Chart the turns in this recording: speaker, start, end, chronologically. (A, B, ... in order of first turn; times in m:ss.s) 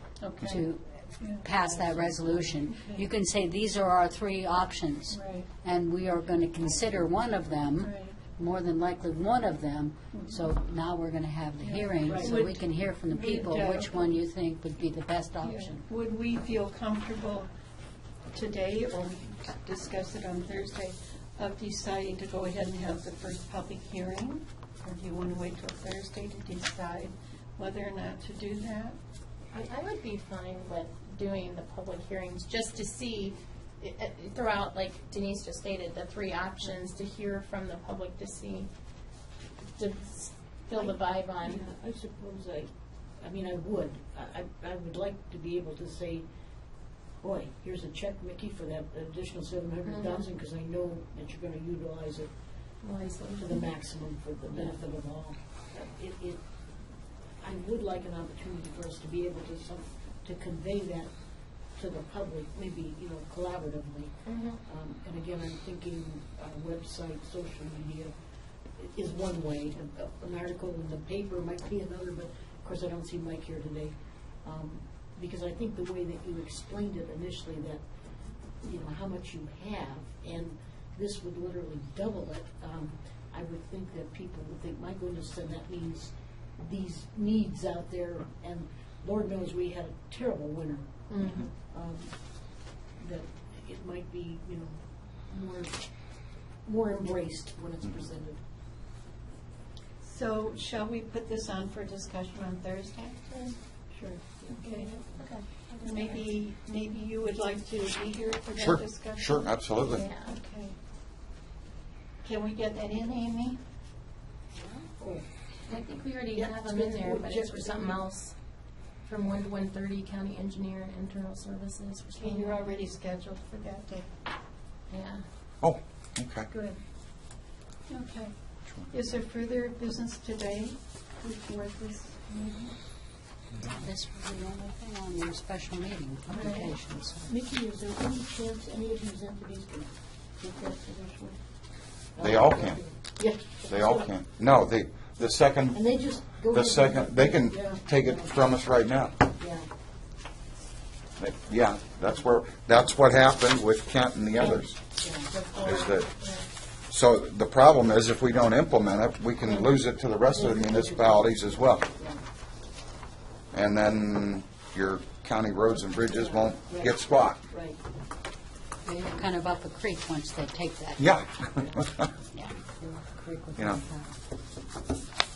0:00.2-0:00.6 A
0:00.4-0:15.8 B
0:01.2-0:03.0 A
0:05.1-0:05.5 A
0:06.6-0:07.0 C
0:07.8-0:08.2 A
0:11.6-0:14.2 A
0:12.0-0:12.4 C
0:15.4-0:17.5 A
0:18.3-0:29.0 A
0:29.5-0:38.7 D
0:39.8-0:41.6 D
0:40.7-0:46.2 C
0:47.2-0:52.3 C
0:50.0-0:50.2 D
0:52.8-0:53.7 D
0:53.4-0:56.4 C
0:57.4-1:01.1 C
1:01.7-1:08.1 C
1:04.2-1:04.6 D
1:08.8-1:17.8 C
1:18.6-1:32.2 C
1:31.1-1:31.5 D
1:33.0-1:35.8 C
1:36.6-1:38.4 C
1:40.0-1:43.6 A
1:44.0-1:44.9 C
1:44.5-1:44.9 A
1:44.7-1:46.2 D
1:45.8-1:49.4 A
1:48.6-1:50.1 E
1:49.8-1:50.4 D
1:50.1-1:50.7 A
1:52.2-1:53.6 A
1:54.9-1:55.3 C
1:55.7-1:58.3 D
1:56.3-1:58.0 C
1:59.0-2:02.6 D
2:02.1-2:04.1 A
2:04.9-2:05.2 D
2:05.6-2:06.5 E
2:06.5-2:06.8 A
2:07.9-2:08.3 A
2:08.9-2:12.7 A
2:13.6-2:17.3 B
2:16.3-2:21.4 C
2:22.1-2:24.1 C
2:22.2-2:22.8 E
2:23.7-2:25.9 E
2:25.7-2:28.3 C
2:26.5-2:29.2 E
2:29.4-2:29.7 C
2:31.2-2:34.7 E
2:34.3-2:35.3 C
2:35.3-2:36.4 D
2:35.6-2:36.1 E
2:36.9-2:41.9 E
2:40.3-2:42.2 C
2:43.5-2:47.4 E
2:46.0-2:47.8 C
2:48.8-2:51.0 B
2:51.0-2:52.1 E
2:52.3-2:54.1 B
2:53.6-2:53.8 E